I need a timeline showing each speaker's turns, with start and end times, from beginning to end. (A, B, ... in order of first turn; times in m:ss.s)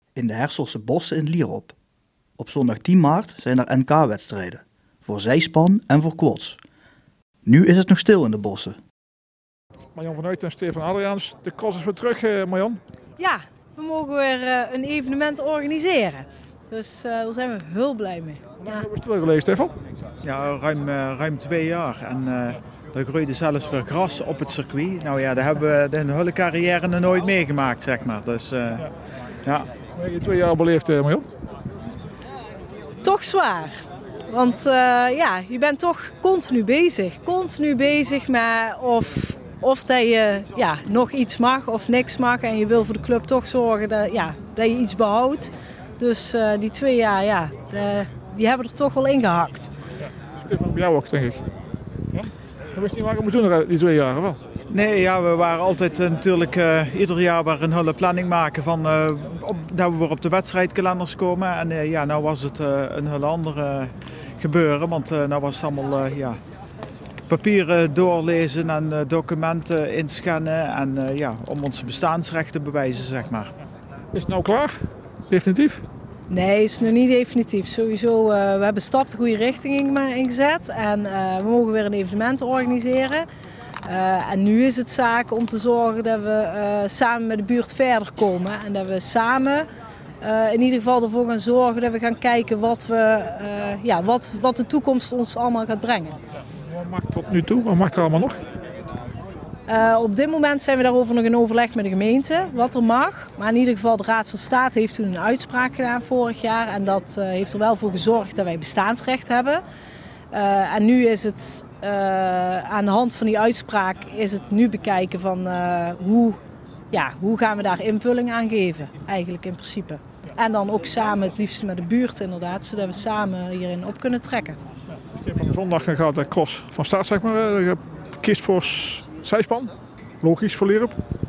0:00.2-0:01.7 A
0:02.4-0:06.6 A
0:07.5-0:08.7 A
0:09.9-0:12.8 B
0:13.2-0:18.8 C
0:18.6-0:19.7 B
0:20.2-0:28.9 D
0:29.4-0:29.7 D
0:30.0-0:31.3 B
0:33.0-0:33.7 C
0:34.3-0:49.7 C
0:50.4-0:51.4 B
0:52.1-0:54.4 B
0:54.7-1:06.4 D
1:07.3-1:13.5 D
1:14.1-1:14.7 B
1:15.3-1:15.8 B
1:16.3-1:23.2 C
1:23.8-1:29.7 C
1:30.2-1:36.2 C
1:36.7-1:38.4 B
1:39.7-1:49.6 C
1:50.3-1:56.4 C
1:56.9-2:04.6 C
2:05.2-2:10.9 B